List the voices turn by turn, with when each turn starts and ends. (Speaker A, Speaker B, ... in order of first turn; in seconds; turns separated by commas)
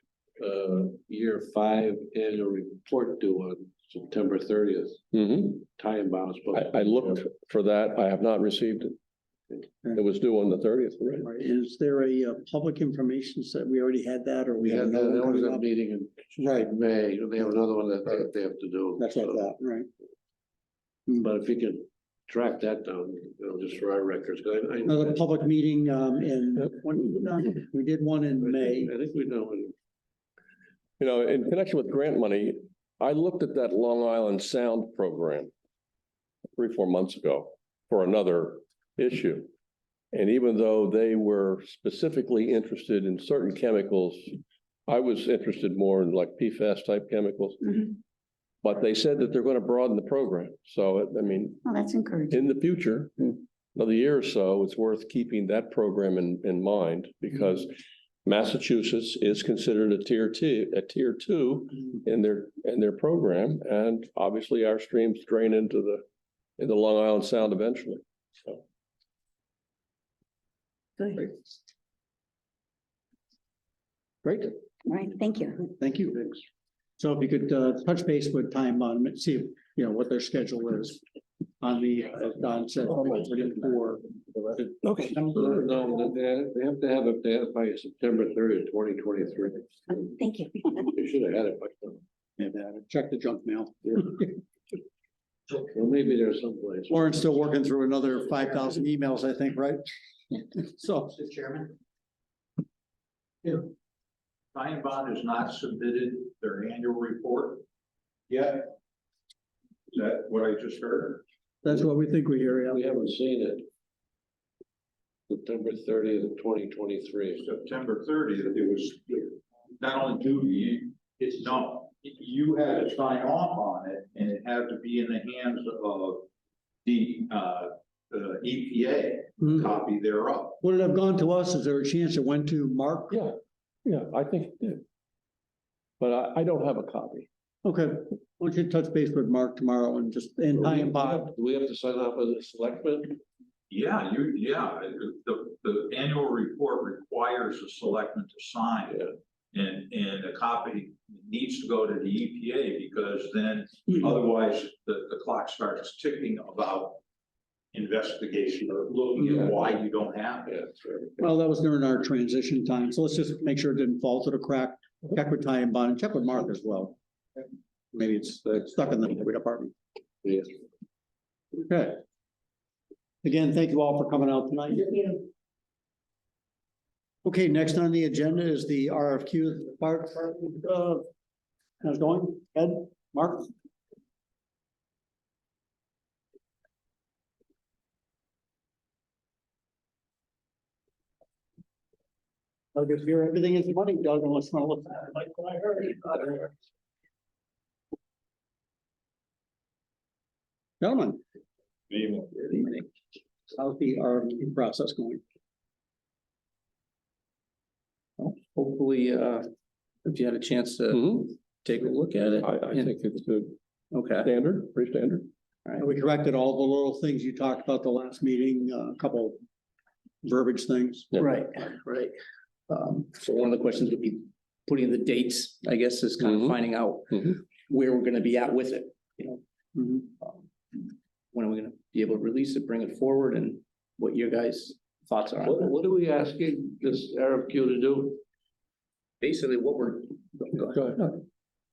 Speaker A: 0.4-7.2, Speaker B: 5.1-5.6, Speaker B: 6.5-9.0, Speaker B: 9.9-11.3, Speaker C: 11.2-15.6, Speaker A: 14.6-19.4, Speaker C: 16.4-16.7, Speaker C: 19.0-19.9, Speaker A: 21.1-25.2, Speaker C: 24.9-28.9, Speaker A: 28.4-29.8, Speaker B: 31.0-35.5, Speaker B: 36.6-39.5, Speaker B: 40.1-44.4, Speaker B: 44.9-48.0, Speaker B: 48.6-51.6, Speaker D: 51.6-52.3, Speaker B: 52.3-66.0, Speaker B: 66.6-68.6, Speaker D: 71.0-71.2, Speaker C: 74.2-74.5, Speaker D: 74.9-75.7, Speaker C: 75.8-76.4, Speaker C: 77.0-81.0, Speaker C: 81.6-85.5, Speaker A: 84.8-90.0, Speaker D: 90.2-90.7, Speaker A: 90.8-92.0, Speaker C: 92.4-94.3, Speaker A: 95.5-97.4, Speaker C: 96.9-101.8, Speaker E: 104.5-107.6, Speaker E: 108.3-108.7, Speaker E: 109.9-111.2, Speaker C: 111.6-112.9, Speaker A: 112.7-113.7, Speaker A: 115.3-117.4, Speaker E: 117.3-126.3, Speaker E: 126.8-130.6, Speaker C: 129.4-129.7, Speaker C: 130.6-133.2, Speaker B: 133.1-134.8, Speaker B: 136.0-137.3, Speaker C: 137.6-141.3, Speaker A: 140.5-143.2, Speaker E: 143.7-157.0, Speaker E: 157.7-160.7, Speaker C: 161.2-166.9, Speaker C: 167.9-169.7, Speaker A: 170.2-170.6, Speaker C: 171.5-172.0, Speaker C: 173.2-175.2, Speaker C: 177.2-181.0, Speaker C: 181.8-183.5, Speaker C: 192.8-196.5, Speaker C: 200.8-201.2, Speaker E: 201.9-202.5, Speaker F: 202.4-202.8, Speaker C: 203.5-205.2, Speaker F: 208.2-209.5, Speaker F: 210.0-212.9, Speaker B: 212.4-213.6, Speaker F: 213.9-214.3, Speaker B: 214.2-215.3, Speaker C: 215.8-219.4, Speaker C: 220.2-221.2, Speaker F: 221.2-222.1, Speaker F: 222.7-235.7, Speaker A: 235.4-238.2, Speaker F: 239.2-241.1, Speaker B: 240.7-241.0